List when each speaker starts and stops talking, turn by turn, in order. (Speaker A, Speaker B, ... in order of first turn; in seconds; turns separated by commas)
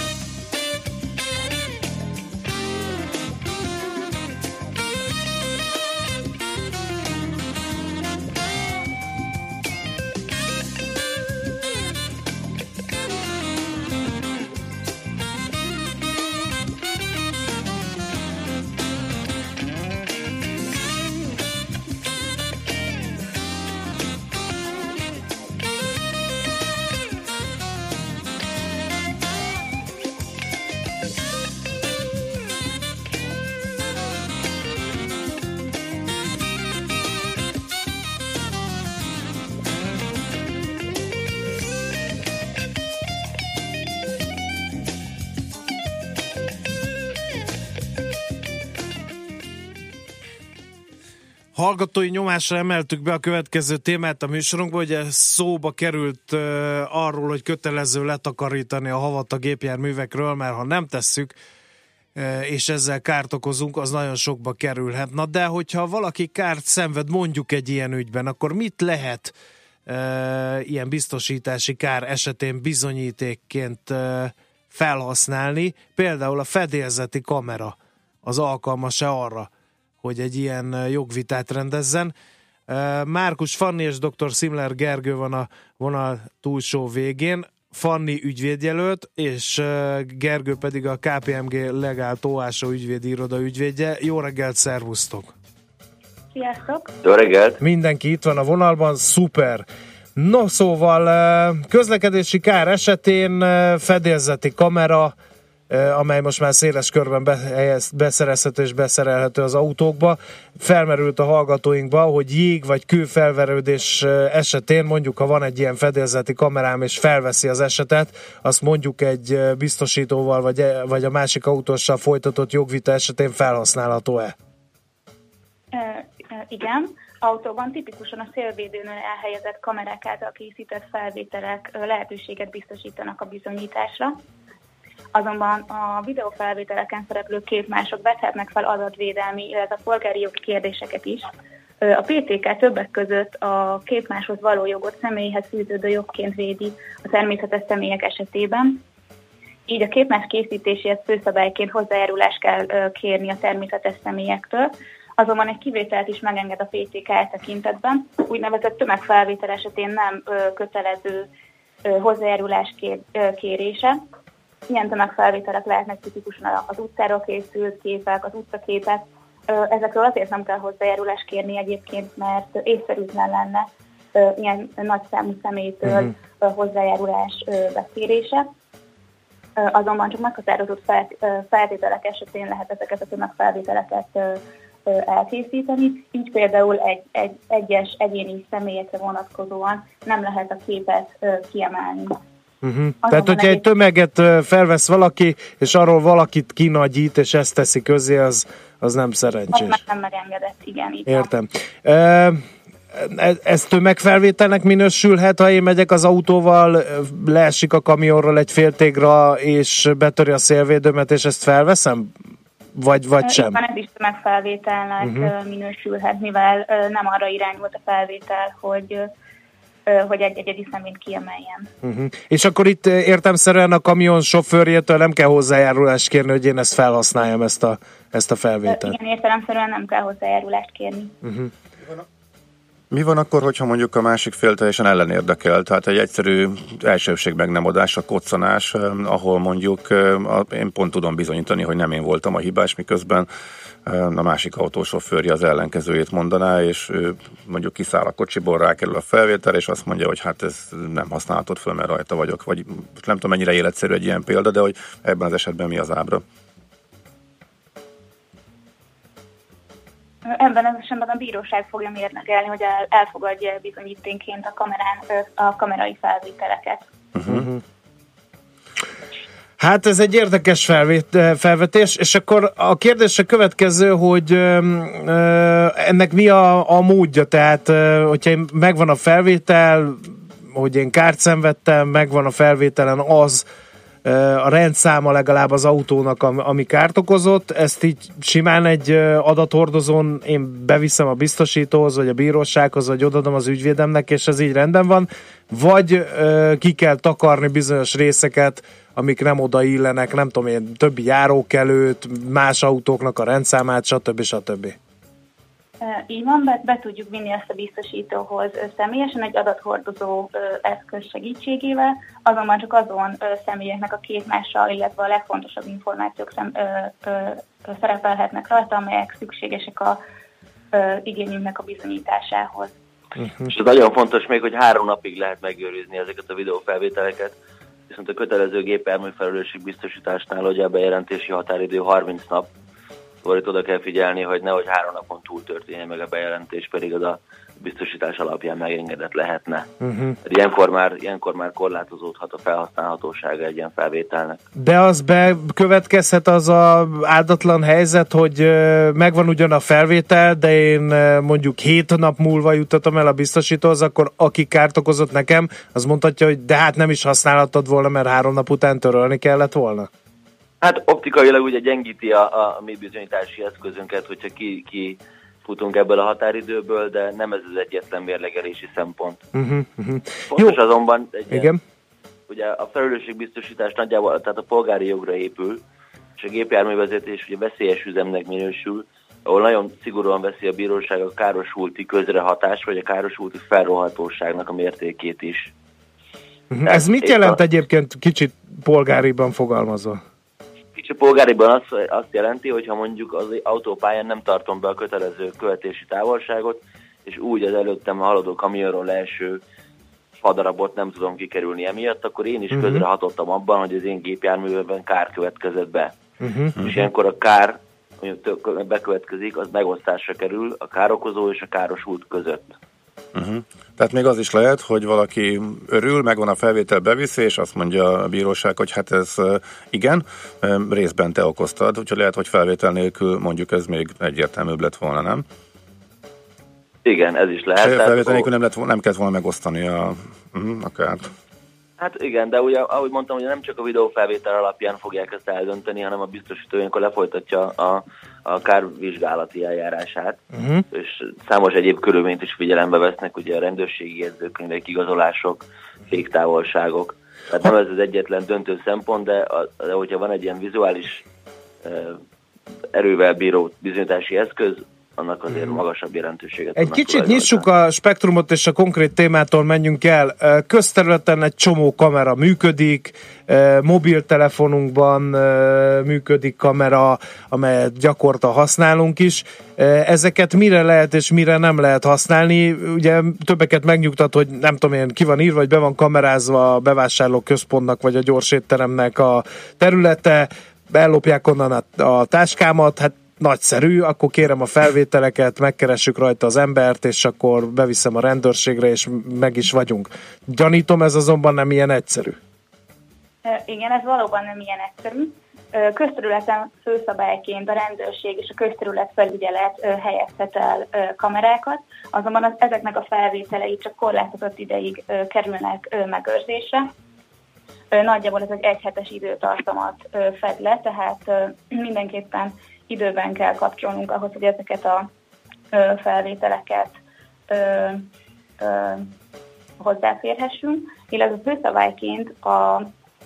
Speaker A: 51.5-61.3, Speaker A: 62.1-69.3, Speaker A: 69.9-79.5, Speaker A: 80.0-82.1, Speaker A: 82.7-95.3, Speaker B: 96.3-96.9, Speaker C: 97.0-97.6, Speaker A: 97.6-99.6, Speaker A: 100.2-105.1, Speaker A: 105.7-124.3, Speaker B: 125.7-134.2, Speaker B: 135.1-141.3, Speaker B: 141.8-148.8, Speaker B: 149.7-161.3, Speaker B: 161.8-164.0, Speaker B: 164.7-178.5, Speaker B: 179.6-192.2, Speaker A: 192.6-199.8, Speaker B: 193.0-193.6, Speaker B: 199.5-201.3, Speaker A: 201.1-212.1, Speaker A: 212.8-213.6, Speaker B: 213.2-219.1, Speaker A: 215.0-215.3, Speaker B: 219.9-221.7, Speaker A: 221.8-229.0, Speaker B: 228.7-231.1, Speaker A: 231.2-231.5, Speaker D: 232.9-243.3, Speaker D: 243.8-256.2, Speaker B: 260.2-266.9, Speaker D: 267.1-267.5, Speaker A: 267.2-267.6, Speaker A: 269.6-283.4, Speaker A: 284.0-304.8, Speaker B: 305.8-320.0, Speaker B: 320.7-322.7, Speaker A: 323.2-323.5, Speaker C: 323.5-327.3, Speaker C: 327.9-332.5, Speaker C: 333.2-339.7, Speaker A: 339.8-340.1, Speaker C: 340.2-344.4, Speaker A: 344.6-359.9, Speaker C: 360.6-369.2, Speaker A: 369.3-370.6, Speaker C: 370.3-371.5, Speaker A: 371.3-371.6, Speaker C: 372.3-375.6, Speaker C: 376.2-385.5, Speaker A: 386.5-390.0, Speaker C: 386.6-387.4, Speaker C: 390.7-399.4, Speaker C: 400.2-405.9, Speaker A: 402.5-402.8, Speaker A: 406.2-406.6, Speaker C: 406.6-412.5, Speaker D: 413.1-425.2, Speaker C: 426.8-428.3, Speaker D: 427.5-431.1, Speaker C: 431.8-451.0, Speaker A: 440.3-440.6, Speaker C: 451.6-452.0, Speaker C: 452.7-457.5, Speaker A: 455.3-455.6, Speaker A: 456.6-492.2, Speaker B: 493.2-506.7, Speaker B: 507.7-514.9, Speaker B: 515.5-516.7, Speaker B: 517.3-517.9, Speaker B: 518.4-518.9, Speaker B: 519.6-522.7